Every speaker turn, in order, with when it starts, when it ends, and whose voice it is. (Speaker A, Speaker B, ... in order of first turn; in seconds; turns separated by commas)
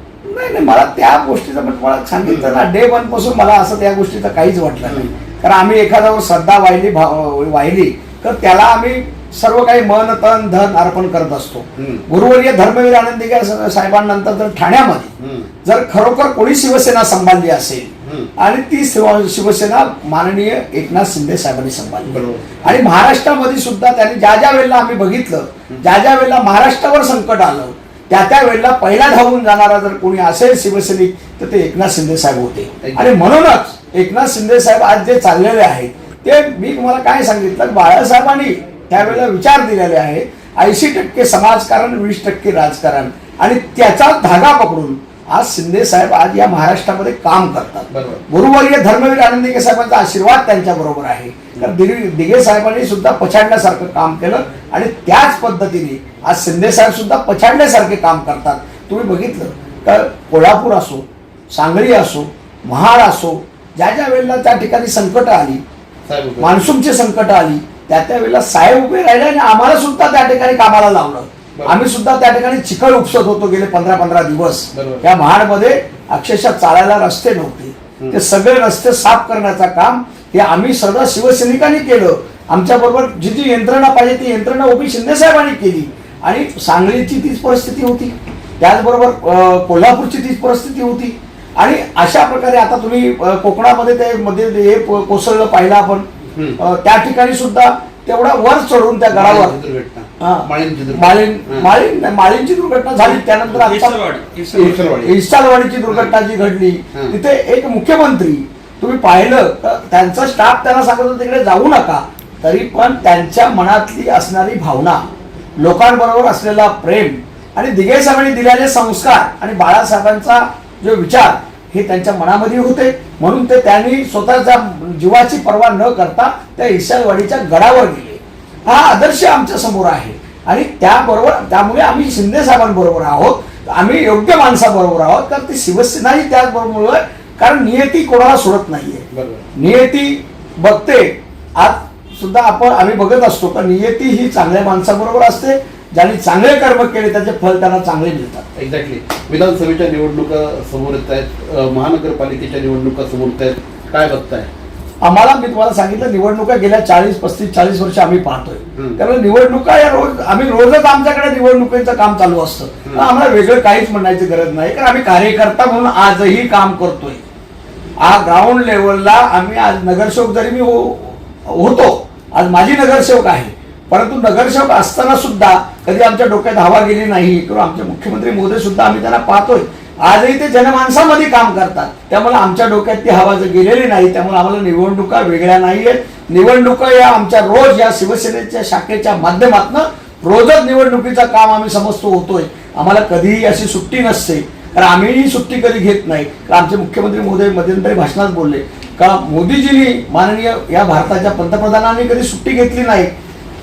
Speaker A: 0.2-15.1, Speaker B: 2.2-2.5, Speaker B: 4.8-5.1, Speaker B: 11.8-12.1, Speaker B: 15.2-15.5, Speaker A: 15.6-65.6, Speaker B: 18.0-18.3, Speaker B: 22.1-22.7, Speaker B: 32.8-33.3, Speaker B: 47.9-48.2, Speaker B: 66.0-66.6, Speaker A: 66.4-96.1, Speaker B: 74.7-75.0, Speaker B: 96.3-96.6, Speaker A: 96.6-99.5, Speaker B: 99.1-101.7, Speaker A: 100.2-115.0, Speaker B: 103.0-105.2, Speaker B: 105.9-106.1, Speaker A: 115.6-139.1, Speaker B: 139.1-139.5, Speaker A: 139.6-148.5, Speaker B: 148.6-154.5, Speaker A: 155.0-167.2, Speaker A: 168.0-203.1